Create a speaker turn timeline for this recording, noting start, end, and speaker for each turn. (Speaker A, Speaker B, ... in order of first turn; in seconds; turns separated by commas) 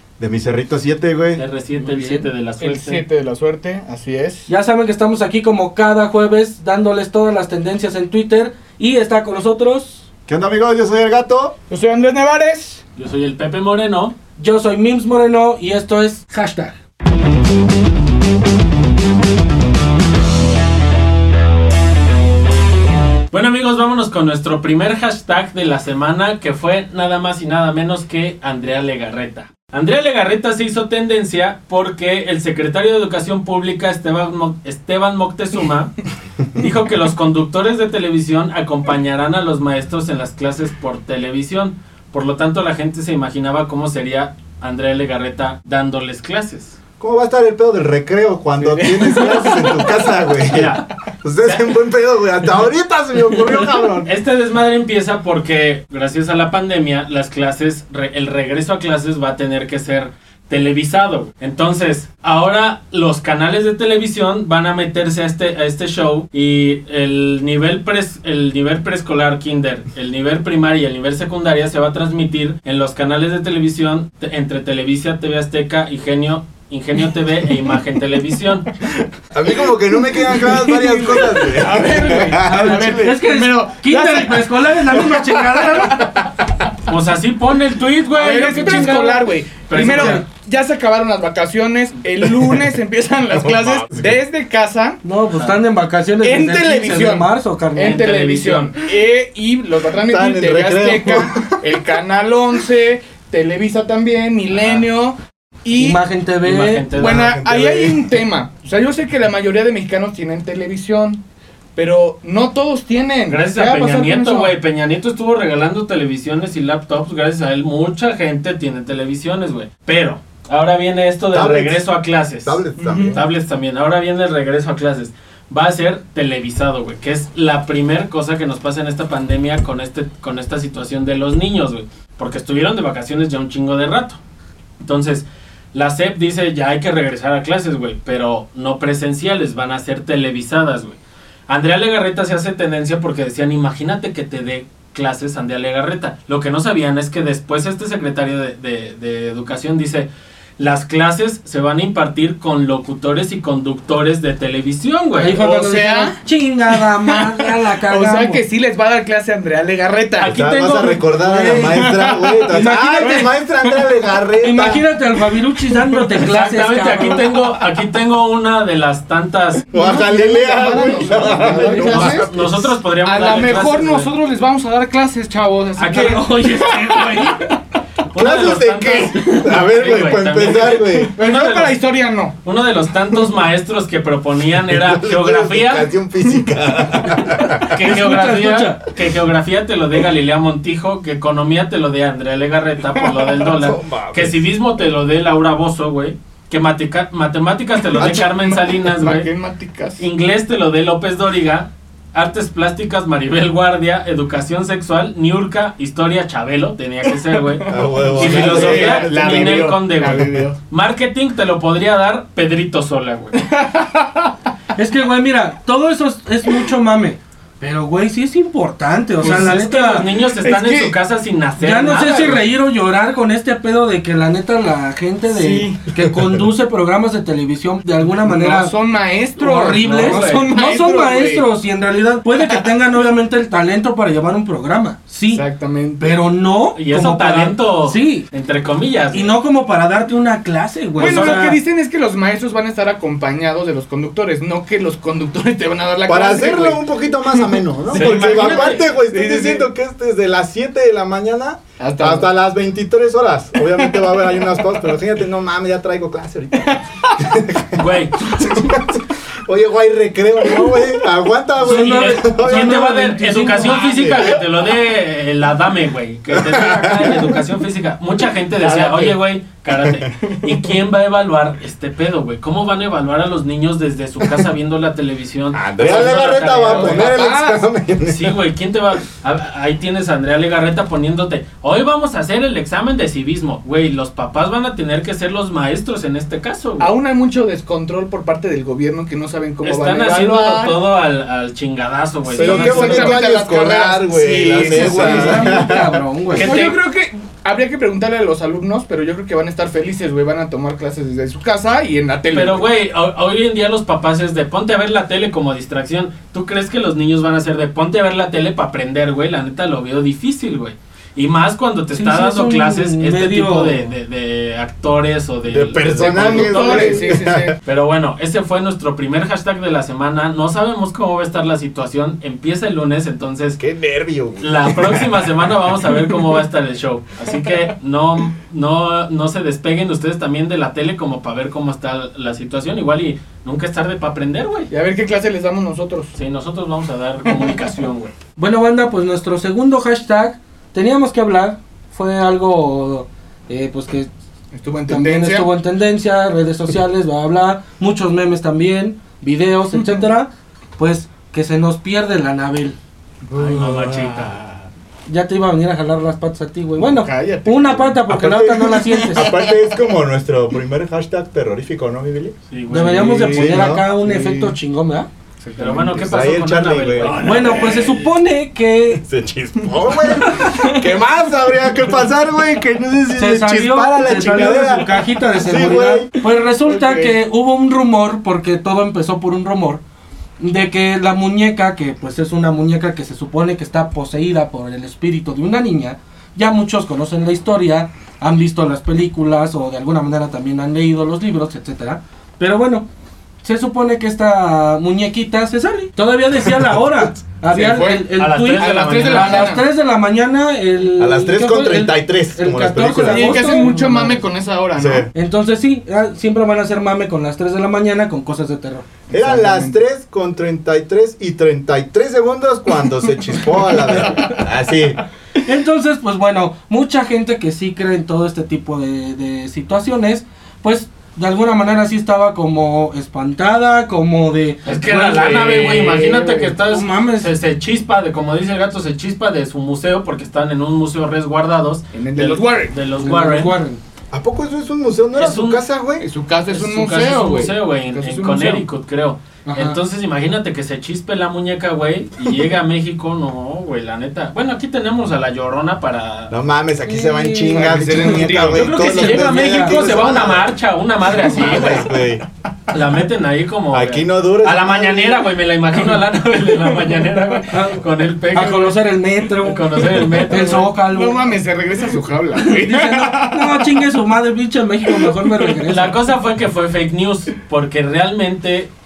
Speaker A: 0.2-1.4, Speaker B: 1.4-3.0, Speaker C: 1.8-2.3, Speaker D: 2.6-4.5, Speaker C: 4.5-10.1, Speaker A: 10.3-11.6, Speaker D: 11.7-12.8, Speaker B: 13.0-14.2, Speaker C: 14.4-16.8, Speaker B: 23.3-36.0, Speaker B: 36.5-46.8, Speaker A: 47.0-54.1, Speaker B: 48.6-50.9, Speaker B: 51.4-51.7, Speaker B: 53.5-78.7, Speaker A: 79.3-83.2, Speaker D: 80.2-86.3, Speaker C: 82.3-86.1, Speaker B: 86.9-90.2, Speaker D: 88.1-95.0, Speaker C: 89.8-90.2, Speaker A: 93.3-94.2, Speaker C: 95.0-98.1, Speaker D: 96.2-106.0, Speaker B: 97.8-98.7, Speaker A: 100.0-101.6, Speaker B: 104.6-104.8, Speaker C: 105.8-106.9, Speaker B: 106.4-107.3, Speaker D: 107.0-111.2, Speaker A: 107.0-108.1, Speaker D: 111.8-114.5, Speaker B: 113.3-134.2, Speaker A: 121.3-121.8, Speaker A: 122.4-123.2, Speaker D: 122.8-123.2, Speaker B: 134.8-155.4, Speaker C: 155.2-158.4, Speaker D: 155.3-156.2, Speaker D: 156.7-160.3, Speaker B: 160.2-161.1, Speaker A: 160.2-164.9, Speaker C: 161.2-163.3, Speaker D: 161.6-163.8, Speaker C: 164.4-167.3, Speaker B: 166.2-169.7, Speaker A: 169.7-172.5, Speaker D: 169.7-177.5, Speaker C: 171.1-172.2, Speaker B: 171.8-174.1, Speaker B: 175.8-177.2, Speaker C: 175.9-177.5, Speaker B: 178.1-181.8, Speaker A: 178.1-181.1, Speaker D: 180.8-182.3, Speaker B: 182.4-185.9, Speaker A: 184.6-187.8, Speaker C: 187.7-188.8, Speaker B: 187.7-199.3, Speaker A: 193.5-194.4, Speaker D: 197.9-200.1, Speaker A: 198.0-198.3, Speaker B: 200.0-213.4, Speaker D: 207.3-210.6, Speaker A: 207.7-210.4, Speaker D: 213.5-214.3, Speaker C: 214.8-220.1, Speaker B: 219.2-222.4, Speaker D: 220.4-220.9, Speaker C: 221.6-228.7, Speaker D: 225.3-225.8, Speaker D: 228.2-231.5, Speaker C: 229.4-235.4, Speaker B: 229.8-230.5, Speaker D: 235.3-236.2, Speaker C: 236.0-238.3, Speaker B: 236.8-239.3, Speaker C: 239.1-241.6, Speaker D: 241.0-249.7, Speaker B: 241.0-241.4, Speaker A: 246.1-257.8, Speaker B: 247.9-248.9, Speaker D: 251.8-252.3, Speaker D: 253.7-254.6, Speaker D: 256.6-256.9, Speaker B: 257.8-258.3, Speaker D: 258.3-258.6, Speaker A: 258.4-262.9, Speaker C: 261.6-263.8, Speaker B: 261.6-277.2, Speaker A: 263.6-264.4, Speaker A: 266.3-267.4, Speaker A: 268.6-269.1, Speaker A: 275.5-278.4, Speaker D: 275.8-277.7, Speaker B: 278.1-286.9, Speaker D: 286.8-290.8, Speaker B: 289.6-293.2, Speaker D: 292.3-295.6, Speaker A: 292.3-296.0, Speaker C: 294.6-296.6, Speaker B: 296.3-296.8, Speaker D: 296.4-302.7, Speaker B: 302.3-317.1, Speaker C: 311.9-313.9, Speaker A: 315.5-317.5, Speaker D: 316.0-317.6, Speaker B: 317.6-323.6, Speaker A: 323.6-325.1, Speaker B: 324.4-334.7, Speaker D: 334.7-336.1, Speaker B: 336.1-338.1, Speaker C: 338.4-344.1, Speaker D: 344.5-345.5, Speaker C: 344.9-352.8, Speaker D: 353.3-354.4, Speaker B: 353.3-354.7, Speaker C: 355.1-359.3, Speaker D: 356.8-358.0, Speaker A: 358.1-362.4, Speaker D: 358.7-359.5, Speaker B: 362.5-363.6, Speaker C: 362.7-365.1, Speaker A: 363.2-363.9, Speaker D: 363.8-364.5, Speaker D: 365.4-366.1, Speaker B: 365.6-368.0, Speaker A: 366.0-367.1, Speaker D: 367.0-367.9, Speaker C: 367.2-369.0, Speaker A: 369.0-376.1, Speaker D: 370.1-370.8, Speaker C: 373.1-379.8, Speaker D: 376.6-377.2, Speaker C: 380.4-392.9, Speaker C: 393.4-404.2, Speaker D: 397.5-399.6, Speaker B: 398.2-399.6, Speaker A: 401.0-403.6, Speaker D: 403.1-405.1, Speaker A: 404.8-405.1, Speaker C: 405.1-408.9, Speaker D: 409.1-409.8, Speaker A: 409.1-415.0, Speaker D: 414.0-414.3, Speaker C: 415.4-427.3, Speaker B: 424.7-433.6, Speaker D: 431.9-432.8, Speaker C: 433.0-433.8, Speaker A: 434.1-436.1, Speaker B: 435.1-435.6, Speaker D: 436.0-438.6, Speaker B: 436.5-446.3, Speaker C: 439.5-439.8, Speaker A: 446.3-450.5, Speaker C: 446.9-449.9, Speaker D: 447.5-448.7, Speaker B: 448.5-451.9, Speaker D: 451.1-451.9, Speaker A: 451.2-452.2, Speaker B: 452.7-458.8, Speaker A: 453.7-455.3, Speaker C: 457.5-461.3, Speaker B: 459.4-460.7, Speaker D: 460.2-463.8, Speaker C: 462.4-466.0, Speaker D: 464.9-465.5, Speaker B: 465.7-468.7